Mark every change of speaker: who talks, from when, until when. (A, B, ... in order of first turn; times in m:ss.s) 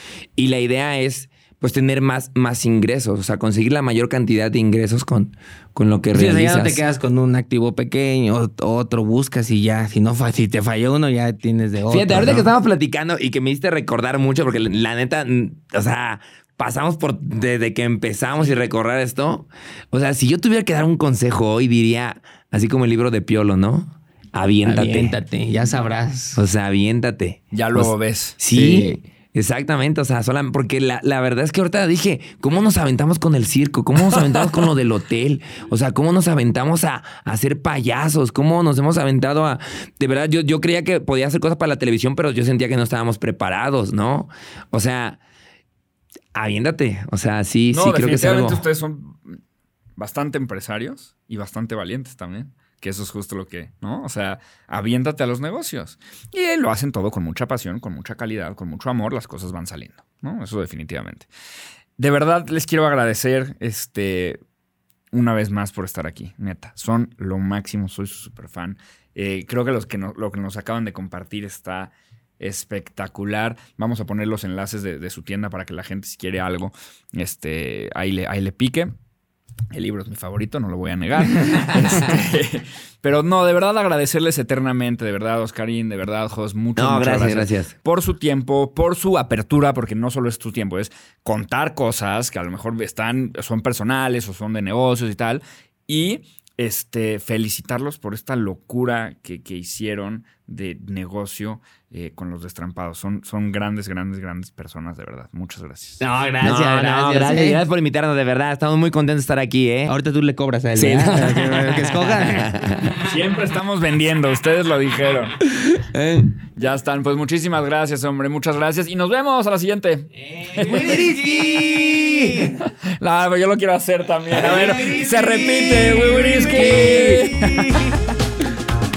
0:00.4-0:06.8 A
0:06.1-0:12.5 B
0:11.9-0:25.2 A
0:24.6-0:26.4 B
0:26.3-0:45.2 A
0:27.5-0:28.4 C
0:28.5-0:29.0 B
0:34.1-0:34.6 C
0:46.3-0:48.6 A
0:47.7-0:49.4 C
0:50.0-1:01.3 C
1:02.0-1:04.4 C
1:05.1-1:18.9 C
1:19.7-1:46.0 C
1:26.8-1:27.7 A
1:46.0-1:47.6 B
1:46.4-1:49.9 A
1:49.9-1:53.0 B
1:50.8-1:53.0 A
1:53.0-1:55.4 C
1:55.5-1:56.4 A
1:56.6-2:01.0 C
2:00.4-2:02.5 B
2:00.5-2:02.6 A
2:02.6-2:08.0 C
2:04.4-2:07.9 B
2:04.4-2:07.3 A